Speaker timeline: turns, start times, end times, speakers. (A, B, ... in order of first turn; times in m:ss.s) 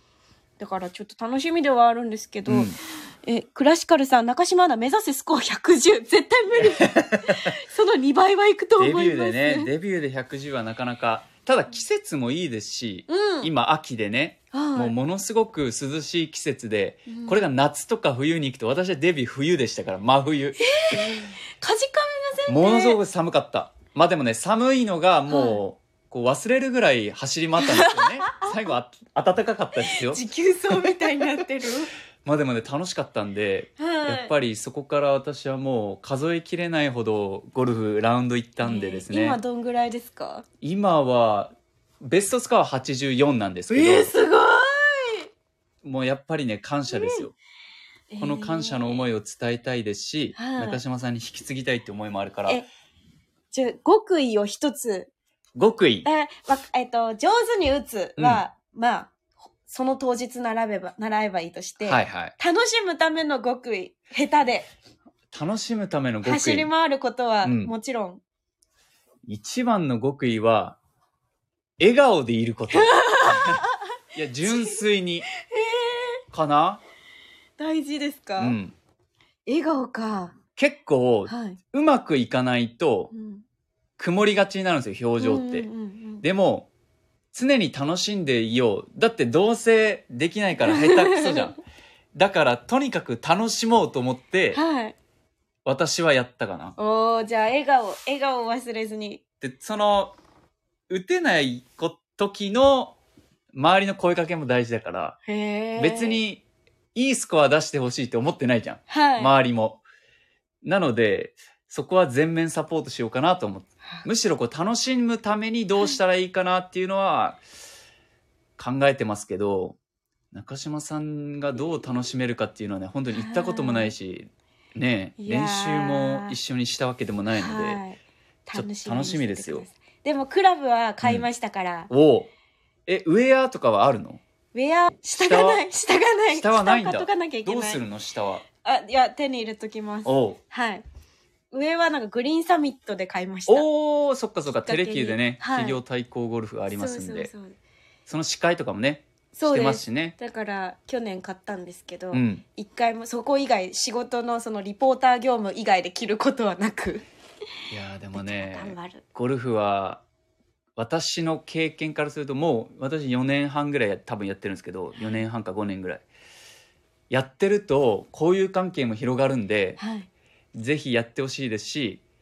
0:00.6-0:09.7 A
0:02.5-0:02.8 B
0:06.9-0:07.5 B
0:08.8-0:21.2 B
0:13.1-0:13.5 A
0:14.5-0:14.9 A
0:17.1-0:17.4 A
0:20.6-0:23.0 A
0:22.5-0:30.2 B
0:25.3-0:25.6 A
0:27.6-0:28.7 A
0:29.9-0:31.9 A
0:32.2-0:39.4 B
0:33.8-0:34.3 A
0:38.6-0:40.4 A
0:40.6-0:44.1 B
0:43.7-0:45.3 A
0:45.8-0:47.4 B
0:46.9-0:47.2 A
0:48.1-0:49.0 A
0:48.2-0:52.6 B
0:50.4-0:50.8 A
0:53.5-0:55.1 A
0:55.6-0:56.1 B
0:56.0-1:04.7 A
0:58.2-0:58.4 B
1:01.8-1:02.3 B
1:05.3-1:06.7 B
1:06.2-1:08.2 A
1:07.4-1:07.7 B
1:09.3-1:10.8 B
1:11.8-1:13.6 B
1:12.7-1:13.8 A
1:14.1-1:15.3 B
1:14.4-1:14.8 A
1:15.4-1:16.2 A
1:16.3-1:16.8 B
1:17.6-1:18.6 A
1:18.4-1:18.8 B
1:19.5-1:20.4 A
1:20.6-1:23.1 B
1:21.3-1:21.6 A
1:23.1-1:23.4 A
1:24.0-1:25.7 B
1:25.2-1:26.2 A
1:26.2-1:26.7 B
1:27.3-1:31.6 B
1:30.7-1:31.5 A
1:32.1-1:34.6 B
1:34.5-1:35.0 A
1:35.7-1:36.8 B
1:36.8-1:39.2 A
1:39.4-1:40.2 B
1:40.9-1:43.0 B
1:43.5-1:45.2 B
1:45.3-1:46.2 A
1:45.8-1:46.4 B
1:47.0-1:49.8 B
1:48.9-1:49.3 A
1:50.6-1:57.4 B
1:58.6-1:59.8 B
2:00.3-2:07.8 B
2:03.1-2:03.9 A
2:05.2-2:06.4 A
2:07.3-2:11.9 A
2:08.5-2:09.7 B
2:11.9-2:12.3 B
2:12.9-2:14.2 B
2:14.5-2:17.8 A
2:15.1-2:15.6 B
2:16.3-2:18.5 B
2:18.6-2:20.8 A
2:20.0-2:20.4 B
2:21.5-2:23.7 A
2:23.5-2:27.3 B
2:24.6-2:25.8 A
2:26.7-2:27.6 A
2:28.1-2:30.2 B
2:29.3-2:37.0 A
2:32.1-2:32.4 B
2:37.7-2:40.0 B
2:38.1-2:39.0 A
2:40.8-2:46.0 B
2:45.0-2:45.2 A
2:47.1-2:49.8 B
2:49.8-2:50.1 A
2:50.5-2:52.0 B